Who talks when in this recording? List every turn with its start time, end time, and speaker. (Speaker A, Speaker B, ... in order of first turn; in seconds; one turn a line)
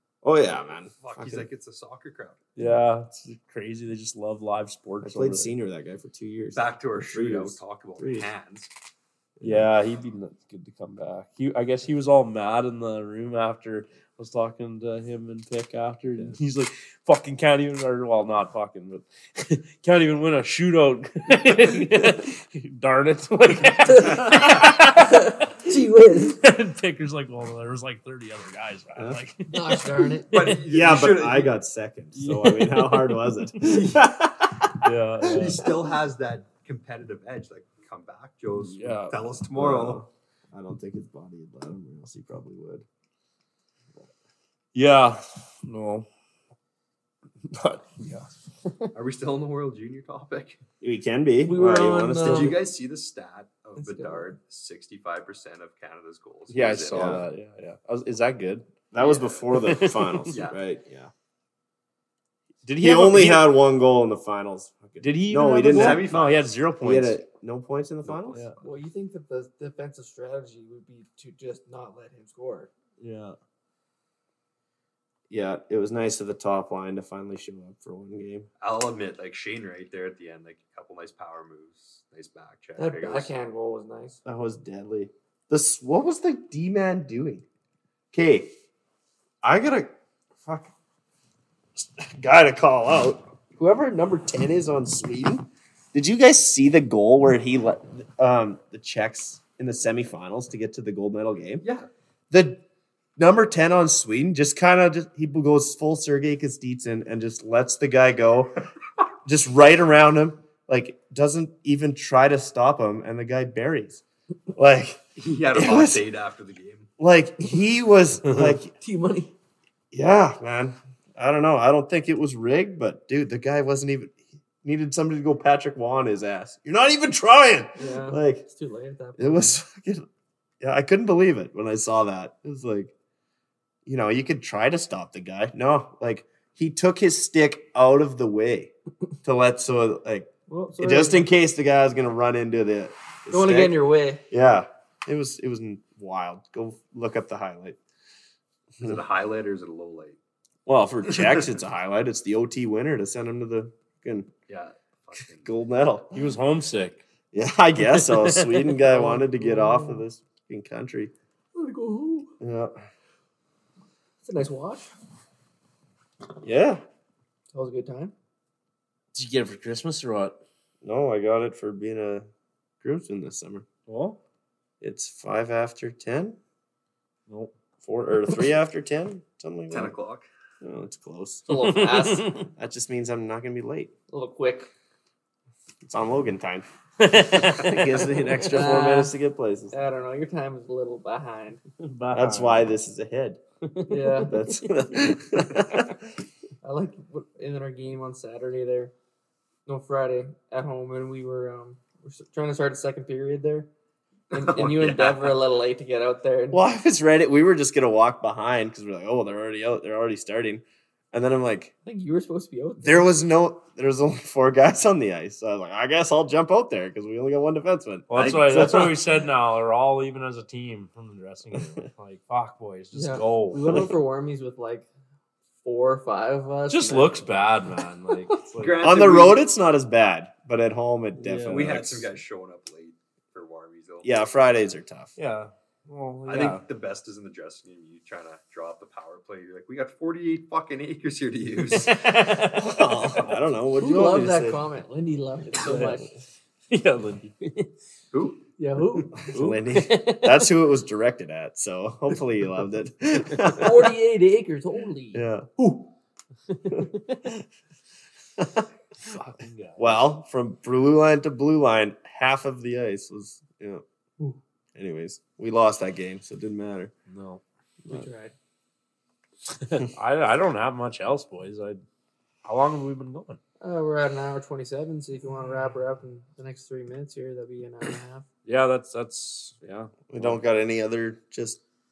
Speaker A: 0.2-1.5
Speaker B: 1.0-2.4
Speaker C: 2.6-5.5
Speaker A: 5.0-8.3
Speaker B: 6.5-8.7
Speaker A: 9.4-9.7
Speaker C: 9.4-25.3
Speaker D: 23.8-26.4
Speaker A: 24.0-24.7
Speaker C: 26.4-30.6
Speaker A: 29.0-29.2
Speaker D: 29.5-30.3
Speaker B: 30.3-31.6
Speaker A: 30.6-35.6
Speaker C: 32.1-34.0
Speaker B: 33.7-34.0
Speaker C: 34.8-35.7
Speaker B: 35.3-40.0
Speaker C: 38.6-39.2
Speaker A: 39.5-42.9
Speaker C: 44.8-46.1
Speaker C: 47.5-48.9
Speaker B: 49.0-50.6
Speaker A: 50.8-52.6
Speaker D: 51.4-52.6
Speaker B: 52.2-57.2
Speaker D: 53.8-54.3
Speaker C: 56.5-58.7
Speaker A: 56.9-57.2
Speaker A: 58.9-61.1
Speaker B: 59.0-59.4
Speaker C: 59.5-60.4
Speaker B: 60.3-60.6
Speaker C: 62.6-63.5
Speaker A: 62.8-68.4
Speaker C: 65.0-67.2
Speaker B: 65.7-66.5
Speaker B: 68.0-68.7
Speaker D: 68.6-72.7
Speaker C: 73.0-73.4
Speaker A: 75.3-78.5
Speaker B: 78.6-83.3
Speaker D: 82.8-84.2
Speaker A: 84.2-87.4
Speaker A: 88.1-88.5
Speaker A: 89.4-89.9
Speaker A: 90.4-90.7
Speaker A: 91.8-101.6
Speaker B: 101.6-101.9
Speaker A: 102.3-102.6
Speaker A: 103.2-108.6
Speaker A: 109.2-114.0
Speaker A: 114.5-115.0
Speaker B: 115.2-116.9
Speaker A: 115.5-116.0
Speaker A: 117.0-118.7
Speaker D: 118.8-119.3
Speaker A: 119.9-128.4
Speaker D: 127.8-129.6
Speaker A: 129.2-130.1
Speaker A: 130.6-132.9
Speaker A: 133.9-138.7
Speaker A: 139.2-143.8
Speaker D: 140.5-141.3
Speaker D: 143.3-144.2
Speaker A: 144.3-147.8
Speaker B: 148.8-150.2
Speaker A: 150.7-154.3
Speaker B: 151.1-151.4
Speaker B: 154.5-155.6
Speaker A: 155.4-156.3
Speaker C: 156.1-157.0
Speaker A: 157.3-161.1
Speaker C: 157.8-158.8
Speaker D: 158.9-160.0
Speaker D: 161.5-162.3
Speaker A: 162.4-162.8
Speaker D: 164.2-164.9
Speaker A: 166.4-166.8
Speaker D: 167.5-168.1
Speaker C: 169.1-170.4
Speaker A: 170.8-172.3
Speaker A: 172.8-173.7
Speaker C: 173.9-174.2
Speaker A: 174.8-176.4
Speaker A: 177.8-179.9
Speaker B: 179.7-180.3
Speaker A: 180.6-181.5
Speaker D: 181.5-182.3
Speaker C: 181.6-182.4
Speaker A: 182.6-183.9
Speaker D: 184.1-184.7
Speaker A: 185.8-189.8
Speaker C: 187.0-188.7
Speaker D: 188.5-189.1
Speaker D: 189.7-191.6
Speaker C: 191.8-192.7
Speaker A: 192.1-193.4
Speaker C: 193.7-194.5
Speaker D: 193.9-194.3
Speaker A: 194.3-196.1
Speaker D: 196.6-198.9
Speaker D: 199.7-203.7
Speaker D: 204.3-206.6
Speaker B: 204.3-205.4
Speaker A: 206.5-211.7
Speaker D: 211.8-213.1
Speaker A: 212.8-219.0
Speaker C: 218.1-223.9
Speaker D: 222.9-224.9
Speaker D: 225.6-227.3
Speaker C: 226.7-228.8
Speaker B: 228.6-229.5
Speaker A: 228.8-232.1
Speaker C: 231.2-231.8
Speaker B: 231.5-234.2
Speaker A: 234.0-235.1
Speaker C: 235.2-236.6
Speaker B: 236.3-242.0
Speaker C: 241.7-243.2
Speaker A: 242.5-244.6
Speaker D: 243.8-246.1
Speaker C: 245.5-246.0
Speaker C: 246.7-247.7
Speaker B: 248.1-248.4
Speaker D: 248.6-249.2
Speaker A: 249.2-253.8
Speaker C: 249.3-250.5
Speaker C: 253.3-253.6
Speaker D: 253.5-255.2
Speaker A: 255.1-255.5
Speaker C: 256.5-257.2
Speaker A: 256.7-257.4
Speaker A: 258.4-258.7
Speaker C: 259.0-260.0
Speaker A: 259.8-263.8
Speaker A: 264.8-266.9
Speaker C: 267.1-267.4
Speaker D: 267.9-268.3
Speaker C: 269.5-271.8
Speaker C: 272.4-273.4
Speaker D: 273.6-278.3
Speaker C: 278.5-280.4
Speaker A: 280.1-281.6